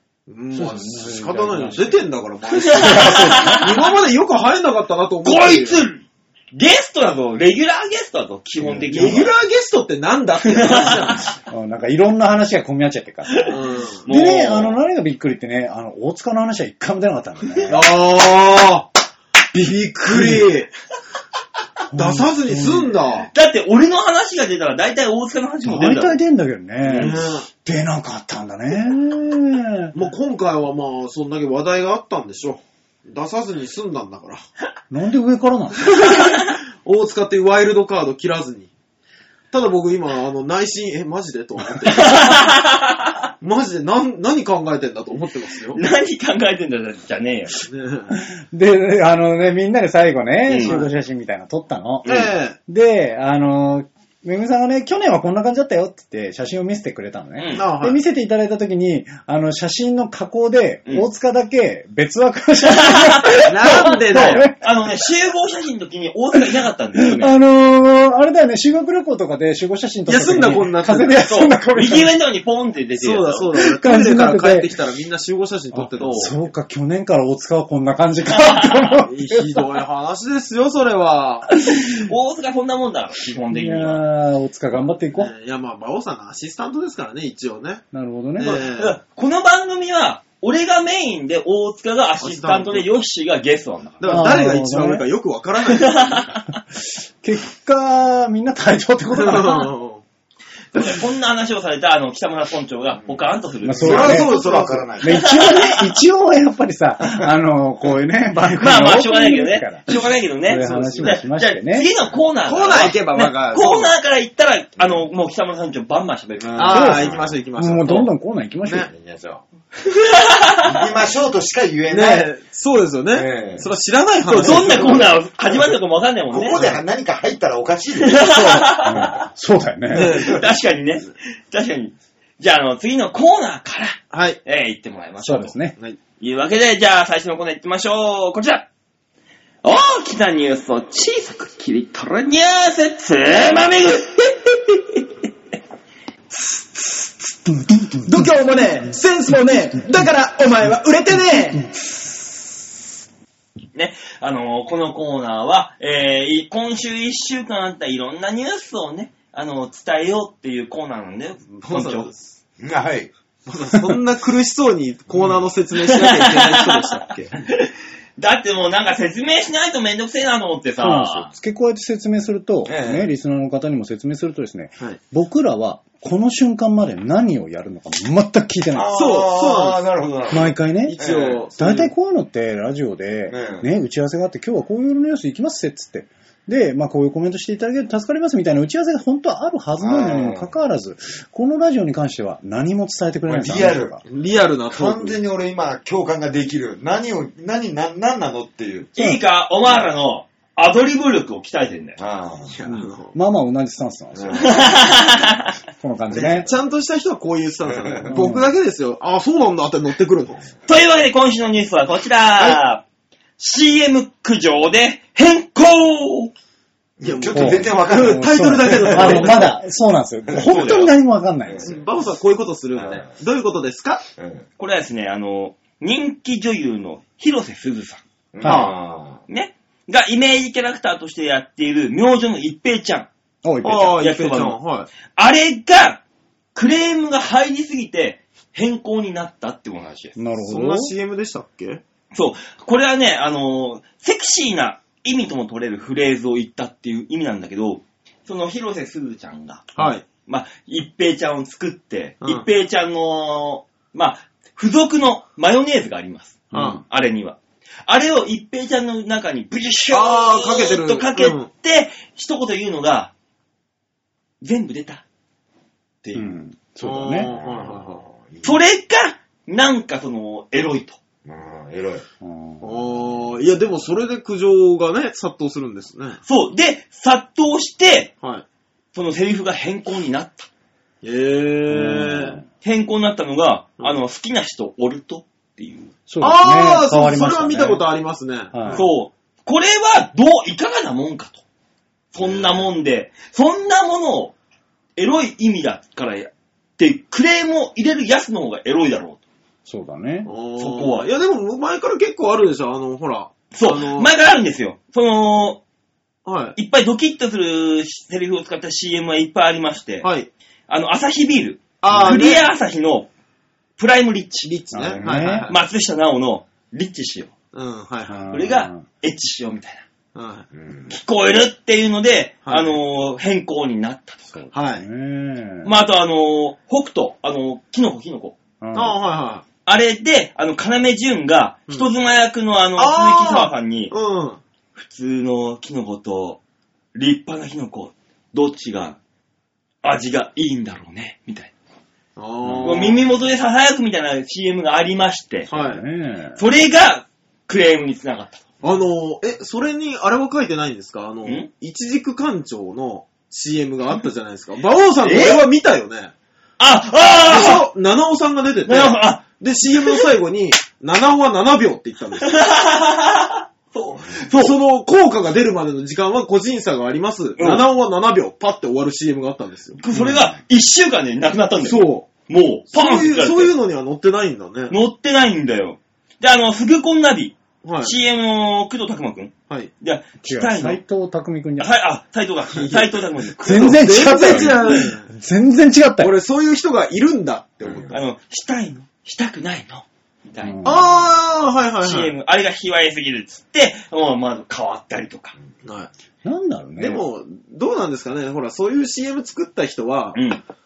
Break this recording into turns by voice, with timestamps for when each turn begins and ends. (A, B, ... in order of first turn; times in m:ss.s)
0:00.3-0:05.8 A
0:00.5-0:02.0 B
0:02.6-0:03.7 C
0:02.7-0:03.7 B
0:05.2-0:09.3 C
0:08.6-0:09.3 B
0:08.9-0:11.3 A
0:10.6-0:10.9 C
0:11.1-0:17.9 B
0:13.5-0:14.0 A
0:14.0-0:14.8 C
0:17.7-0:18.9 A
0:19.5-0:20.7 A
0:20.0-0:20.5 B
0:21.9-0:22.9 B
0:21.9-0:23.3 A
0:23.3-0:26.2 C
0:25.6-0:29.9 B
0:26.9-0:27.5 A
0:29.9-0:34.4 A
0:34.9-0:36.1 B
0:35.8-0:38.7 A
0:39.5-0:42.3 A
0:41.9-0:43.2 C
0:43.4-0:45.8 A
0:45.7-0:47.6 C
0:47.6-0:48.2 A
0:48.1-1:04.6 B
0:50.5-0:50.8 C
0:50.6-0:50.9 A
0:52.0-0:52.3 C
0:52.0-0:52.6 A
0:57.4-0:57.7 C
0:57.5-0:58.0 A
1:02.7-1:03.4 C
1:03.5-1:04.4 A
1:04.1-1:07.4 C
1:07.0-1:12.2 B
1:10.1-1:11.2 A
1:11.2-1:13.5 C
1:13.0-1:16.5 A
1:13.5-1:14.7 B
1:15.7-1:19.6 B
1:16.0-1:16.3 C
1:18.3-1:18.9 C
1:19.0-1:21.5 A
1:21.9-1:24.0 C
1:23.5-1:25.3 B
1:25.1-1:27.8 A
1:27.9-1:28.6 B
1:28.4-1:29.0 A
1:28.7-1:34.3 C
1:32.2-1:32.9 A
1:34.0-1:36.2 A
1:34.0-1:35.1 B
1:35.7-1:36.5 C
1:37.2-1:39.7 B
1:39.2-1:40.0 A
1:40.7-1:44.2 C
1:43.0-1:45.2 D
1:43.6-1:44.3 B
1:43.8-1:45.1 A
1:45.0-1:51.9 B
1:45.2-1:45.8 C
1:48.5-1:57.2 C
1:50.6-1:51.2 A
1:52.4-1:54.0 A
1:54.8-1:55.0 D
1:56.4-1:57.4 D
1:56.6-1:58.0 A
1:56.6-1:58.9 B
1:58.7-1:59.4 D
1:59.9-2:00.7 C
2:00.6-2:02.3 D
2:01.9-2:05.1 A
2:03.1-2:03.7 D
2:04.3-2:06.6 C
2:04.4-2:05.2 D
2:06.3-2:08.6 D
2:08.0-2:09.1 C
2:08.4-2:10.2 B
2:09.9-2:10.4 A
2:10.2-2:15.6 C
2:14.1-2:14.4 A
2:15.2-2:15.8 B
2:16.2-2:18.6 C
2:19.6-2:25.0 C
2:28.0-2:31.7 E
2:29.2-2:30.1 B
2:33.7-2:42.1 C
2:41.6-2:42.3 A
2:42.6-2:43.1 D
2:43.4-2:47.3 A
2:45.8-2:46.8 C
2:47.4-2:51.3 C
2:50.8-2:58.9 B
2:52.6-2:53.1 D
2:58.7-3:01.4 D
2:58.9-2:59.8 A
3:00.3-3:01.0 B
3:00.8-3:01.9 A
3:01.6-3:14.0 B
3:03.3-3:03.7 D
3:09.8-3:10.5 D
3:13.2-3:14.0 D
3:14.0-3:15.2 A
3:14.7-3:18.9 D
3:18.9-3:22.0 C
3:19.6-3:19.9 D
3:22.0-3:22.6 D
3:22.5-3:23.1 A
3:22.6-3:24.5 B
3:24.1-3:25.0 D
3:24.5-3:25.5 C
3:25.8-3:26.5 B
3:26.1-3:30.4 A
3:27.6-3:28.3 D
3:28.1-3:28.5 B
3:30.7-3:32.8 C
3:33.4-3:36.3 C
3:37.0-3:39.5 D
3:37.0-3:39.6 A
3:37.3-3:41.8 B
3:40.3-3:40.9 C
3:41.4-3:41.8 D
3:41.6-3:44.0 A
3:42.7-3:43.1 D
3:44.2-3:44.4 D
3:44.6-3:48.0 C
3:48.3-3:49.2 D
3:48.4-3:48.7 A
3:49.3-3:53.1 C
3:53.4-3:54.0 B
3:53.6-3:54.9 A
3:53.9-3:54.6 C
3:55.1-3:56.0 C
3:56.5-4:00.2 C
4:00.2-4:00.9 B
4:00.4-4:01.8 A
4:02.1-4:09.7 C
4:09.7-4:10.0 A
4:10.2-4:23.1 C
4:12.2-4:12.5 A
4:16.5-4:16.8 A
4:19.9-4:21.5 A
4:24.4-4:25.0 C
4:26.0-4:26.4 C
4:26.1-4:27.3 B
4:26.8-4:28.0 A
4:27.2-4:28.6 D
4:28.4-4:31.0 C
4:31.2-4:32.0 D
4:32.2-4:32.9 B
4:32.6-4:36.2 A
4:36.2-4:38.1 C
4:38.9-4:40.5 C
4:41.0-4:42.4 A
4:41.7-4:42.4 B
4:42.6-4:45.9 C
4:46.1-4:47.8 B
4:46.2-4:48.9 A
4:48.5-4:48.8 B
4:48.7-4:51.4 C
4:52.1-4:54.3 C
4:52.2-4:52.6 A
4:55.0-4:59.2 C
4:59.6-5:00.3 B
5:00.2-5:04.1 A
5:00.6-5:01.1 C
5:03.5-5:05.6 C
5:06.2-5:06.6 A
5:06.6-5:10.1 C
5:10.0-5:10.3 A
5:10.7-5:13.1 C
5:11.8-5:12.4 A
5:13.8-5:14.5 C
5:14.4-5:15.6 A
5:14.7-5:15.5 B
5:15.2-5:17.3 C
5:17.5-5:18.3 A
5:18.1-5:18.8 B
5:18.3-5:19.8 C
5:20.1-5:20.4 A
5:20.5-5:20.9 D
5:20.9-5:24.3 C
5:22.4-5:22.8 A
5:24.3-5:25.7 B
5:24.5-5:24.8 A
5:25.6-5:28.3 C
5:28.6-5:29.0 B
5:28.7-5:29.4 A
5:29.6-5:33.9 C
5:32.8-5:34.4 A
5:34.8-5:36.4 C
5:36.9-5:39.0 C
5:39.8-5:41.5 C
5:42.2-5:43.0 A
5:42.4-5:43.0 B
5:42.6-5:45.5 C
5:45.5-5:46.4 B
5:45.5-5:45.8 A
5:46.4-5:48.4 C
5:48.6-5:56.1 A
5:55.0-5:55.4 C
5:56.6-5:57.7 C
5:57.2-6:02.3 A
5:58.6-6:00.1 C
6:02.2-6:04.6 C
6:04.3-6:09.8 A
6:07.4-6:07.7 C
6:09.8-6:13.5 C
6:11.6-6:12.1 A
6:12.7-6:14.8 A
6:14.7-6:20.8 C
6:17.6-6:18.0 A
6:20.2-6:21.7 B
6:21.6-6:24.5 C
6:22.5-6:23.0 A
6:23.4-6:26.1 B
6:23.7-6:25.1 A
6:26.0-6:27.9 A
6:27.6-6:28.0 D
6:27.9-6:30.6 C
6:30.4-6:30.9 B
6:30.6-6:32.1 A
6:31.8-6:35.3 C
6:36.2-6:37.0 B
6:36.8-6:40.2 A
6:40.1-6:40.4 C